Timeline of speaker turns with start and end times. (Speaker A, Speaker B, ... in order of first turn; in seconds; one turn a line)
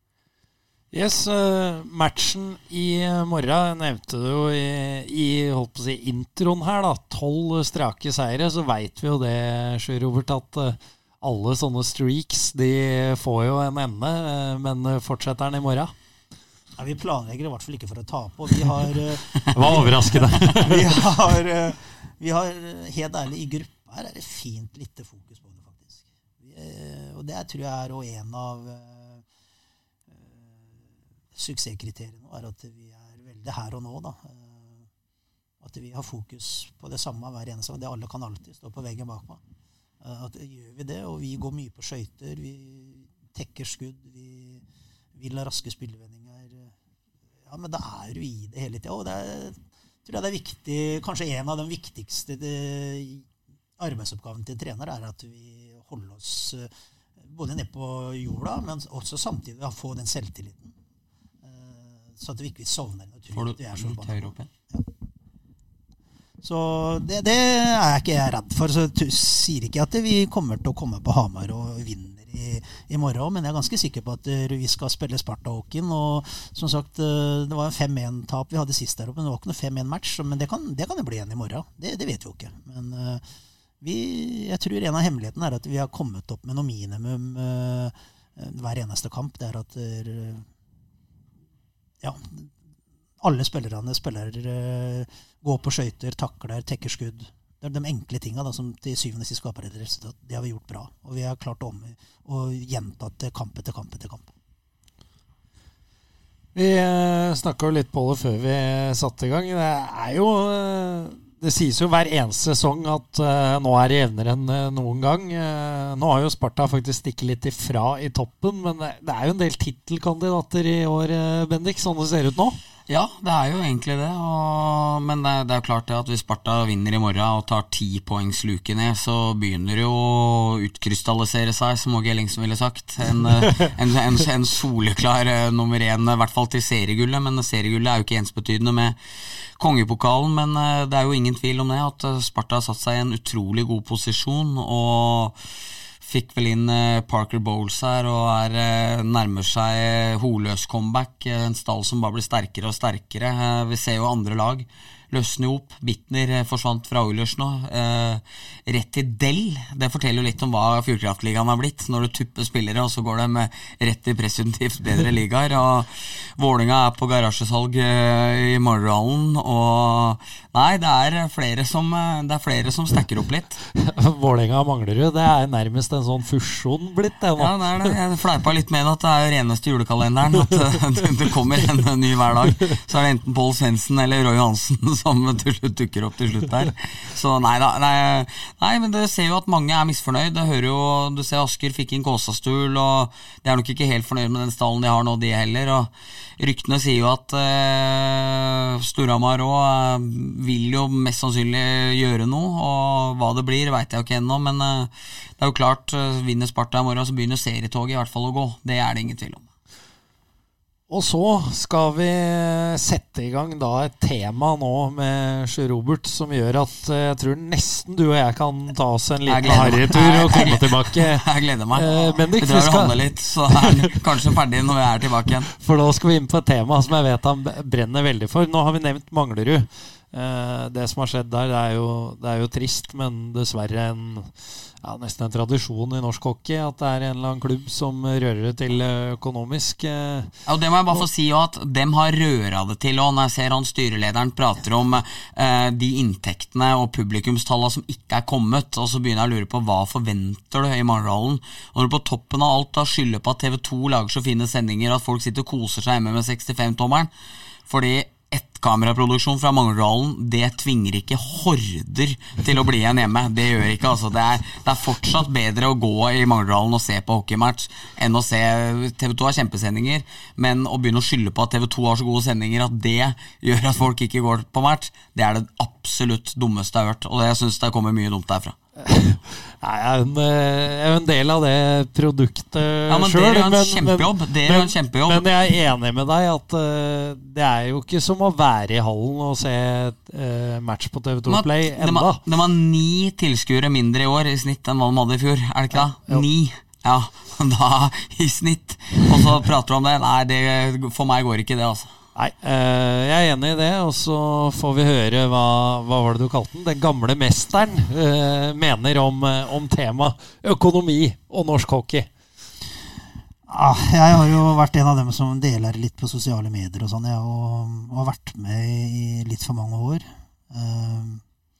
Speaker A: 0.9-15.9
Speaker B: 16.8-29.2
Speaker A: 19.5-20.8
Speaker B: 30.1-30.8
Speaker B: 31.3-34.9
Speaker B: 35.6-39.4
Speaker B: 40.0-44.6
Speaker B: 45.1-46.7
Speaker B: 47.4-53.2
Speaker B: 53.8-60.7
Speaker B: 61.4-64.8
Speaker C: 63.3-64.5
Speaker B: 66.4-83.2
Speaker B: 83.8-90.5
Speaker B: 92.0-92.5
Speaker B: 93.2-104.3
Speaker A: 106.5-122.6
Speaker C: 122.9-139.0
Speaker C: 139.6-145.4
Speaker C: 146.0-173.6
Speaker A: 173.8-177.9
Speaker C: 177.4-209.4
Speaker A: 210.9-223.0
Speaker C: 219.2-225.5
Speaker A: 223.5-223.9
Speaker A: 225.5-234.3
Speaker A: 234.8-240.3
Speaker C: 240.5-257.1
Speaker C: 257.7-278.6
Speaker A: 278.8-292.2
Speaker C: 282.9-285.2
Speaker C: 291.3-301.9
Speaker A: 295.7-296.2
Speaker A: 302.1-312.1
Speaker B: 313.5-321.2